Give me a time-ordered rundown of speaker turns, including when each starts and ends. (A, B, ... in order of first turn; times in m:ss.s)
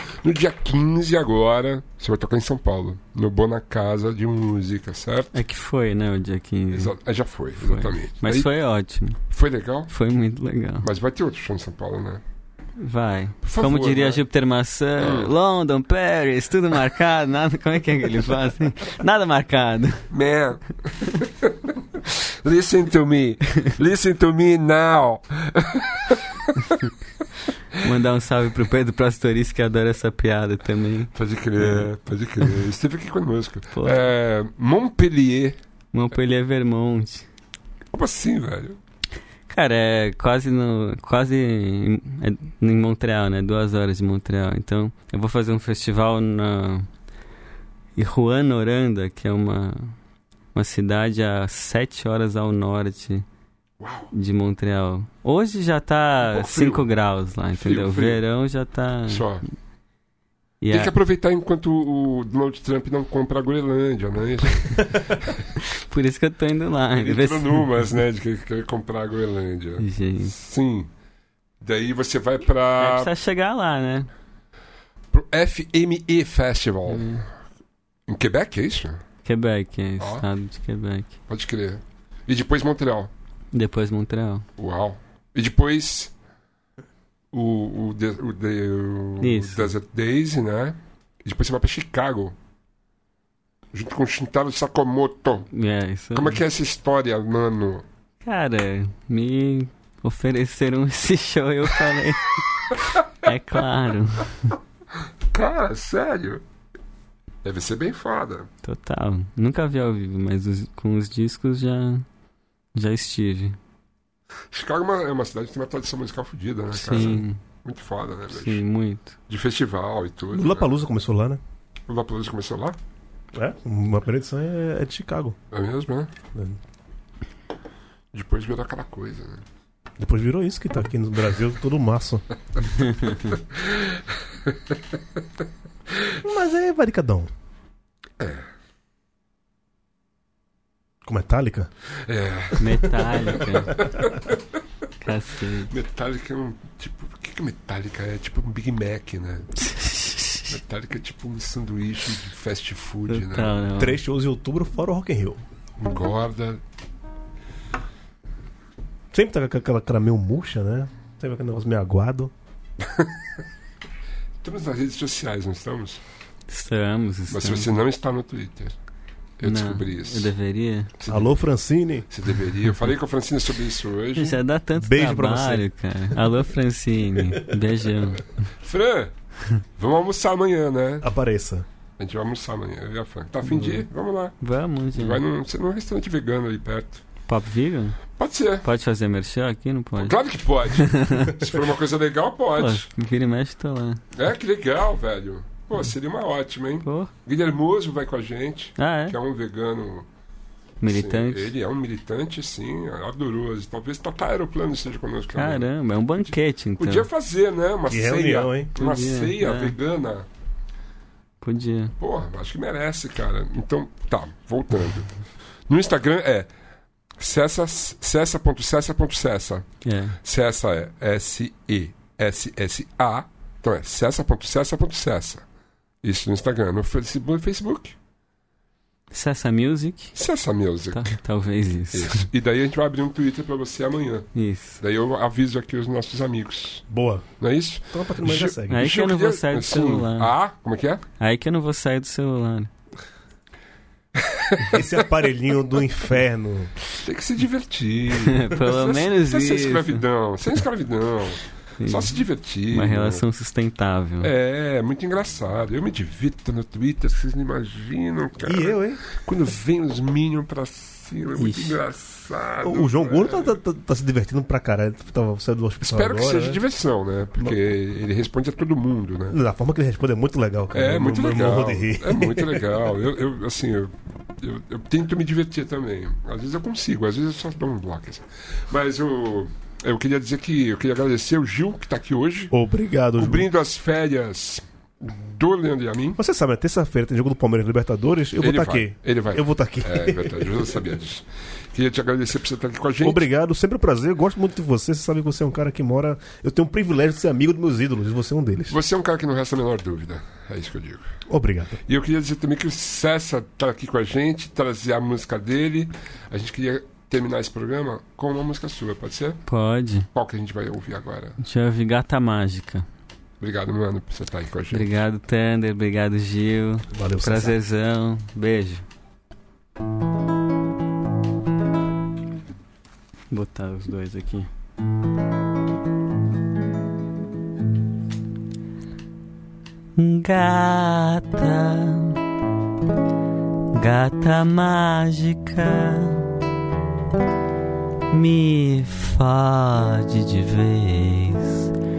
0:00.2-0:05.3 A
0:05.3-0:06.9 B
0:06.7-0:08.5 A
0:07.6-0:09.2 B
0:09.3-0:09.9 A
0:09.9-0:10.9 B
0:10.8-0:12.2 A
0:12.8-0:20.1 B
0:13.4-0:14.2 A
0:15.0-0:15.3 A
0:20.1-0:26.4 A
0:27.8-0:31.9 B
0:31.1-0:35.6 A
0:33.7-0:34.0 B
0:35.9-0:37.3 B
0:37.9-0:38.8 A
0:39.5-0:46.9 B
0:48.0-0:50.0 B
0:50.5-0:53.3 B
0:53.8-0:54.1 A
0:54.1-0:59.2 B
0:56.2-0:56.8 A
0:57.6-0:58.2 A
0:59.1-0:59.4 A
1:00.6-1:01.0 B
1:00.7-1:05.5 A
1:05.6-1:07.6 B
1:07.0-1:10.9 A
1:09.8-1:10.3 B
1:11.6-1:13.1 A
1:12.8-1:14.1 B
1:15.1-1:17.2 A
1:16.9-1:17.3 B
1:18.1-1:19.0 A
1:19.2-1:21.1 B
1:20.0-1:20.3 A
1:21.3-1:23.1 A
1:23.5-1:24.5 B
1:24.6-1:26.1 A
1:27.3-1:32.4 A
1:29.2-1:29.7 B
1:33.7-1:35.5 A
1:35.5-1:36.4 B
1:36.1-1:37.8 A
1:38.2-1:44.6 B
1:45.3-1:46.4 A
1:47.4-1:48.5 A
1:48.6-1:52.0 B
1:52.7-1:53.6 B
1:54.5-1:58.6 A
1:56.7-1:57.4 B
1:58.3-1:59.2 B
1:59.3-2:00.7 A
2:00.3-2:01.4 C
2:01.9-2:02.8 A
2:03.3-2:05.4 C
2:05.5-2:06.1 A
2:08.1-2:09.4 A
2:10.0-2:12.2 C
2:12.8-2:13.2 B
2:13.3-2:13.9 A
2:16.2-2:17.3 C
2:18.2-2:18.4 A
2:21.0-2:21.7 C
2:22.0-2:24.4 A
2:22.6-2:23.8 B
2:25.0-2:25.7 B
2:25.7-2:29.5 A
2:29.6-2:30.5 B
2:30.5-2:33.6 A
2:33.1-2:34.0 B
2:33.8-2:35.4 C
2:35.8-2:36.6 A
2:39.1-2:42.3 C
2:42.8-2:43.1 A
2:44.4-2:46.0 A
2:46.5-2:47.7 B
2:47.3-2:48.7 A
2:49.4-2:50.3 A
2:49.4-2:50.9 B
2:51.0-2:51.4 A
2:51.1-2:52.1 C
2:52.1-2:54.4 A
2:54.2-2:58.3 B
2:54.8-2:55.6 C
2:58.6-2:59.1 A
2:59.8-3:01.1 A
3:01.0-3:01.6 C
3:02.0-3:04.4 A
3:03.5-3:03.8 B
3:04.4-3:05.2 B
3:05.0-3:07.0 A
3:07.3-3:08.0 B
3:08.2-3:08.7 A
3:08.6-3:10.2 B
3:10.0-3:12.9 A
3:10.7-3:11.5 B
3:12.6-3:14.0 B
3:14.1-3:20.1 A
3:16.8-3:17.1 B
3:18.8-3:19.1 B
3:20.8-3:21.5 B
3:20.9-3:25.7 A
3:25.4-3:27.1 B
3:26.2-3:30.3 A
3:27.9-3:28.7 C
3:28.8-3:29.7 B
3:31.4-3:31.9 B
3:32.0-3:35.2 A
3:35.7-3:36.5 A
3:37.2-3:45.4 A
3:39.8-3:40.2 B
3:46.0-3:48.0 A
3:49.1-3:50.1 B
3:50.1-3:51.2 A
3:50.9-3:52.3 B
3:51.9-3:56.8 A
3:54.3-3:54.8 B
3:56.9-3:57.3 C
3:57.4-4:01.0 A
3:57.9-3:58.9 C
3:58.7-4:00.3 B
4:01.2-4:02.7 B
4:04.1-4:04.9 A
4:04.7-4:06.7 C
4:06.9-4:13.2 A
4:08.2-4:10.0 B
4:11.8-4:14.3 B
4:14.2-4:23.5 A
4:18.4-4:19.0 C
4:21.4-4:21.8 B
4:22.6-4:26.6 C
4:25.8-4:29.4 A
4:29.3-4:32.9 C
4:30.7-4:42.5 A
4:42.5-4:43.5 C
4:43.2-4:46.2 A
4:46.2-4:50.8 C
4:48.4-4:53.2 A
4:53.0-4:58.8 C
4:58.7-5:01.1 A
5:01.3-5:01.8 C
5:01.9-5:09.4 A
5:09.4-5:10.1 B
5:10.1-5:11.4 A
5:11.4-5:12.9 B
5:13.4-5:14.9 A
5:14.7-5:18.9 B
5:16.9-5:17.6 C
5:23.3-5:24.5 B
5:30.0-5:32.2 B
5:33.7-5:36.3 B
5:38.1-5:41.7 B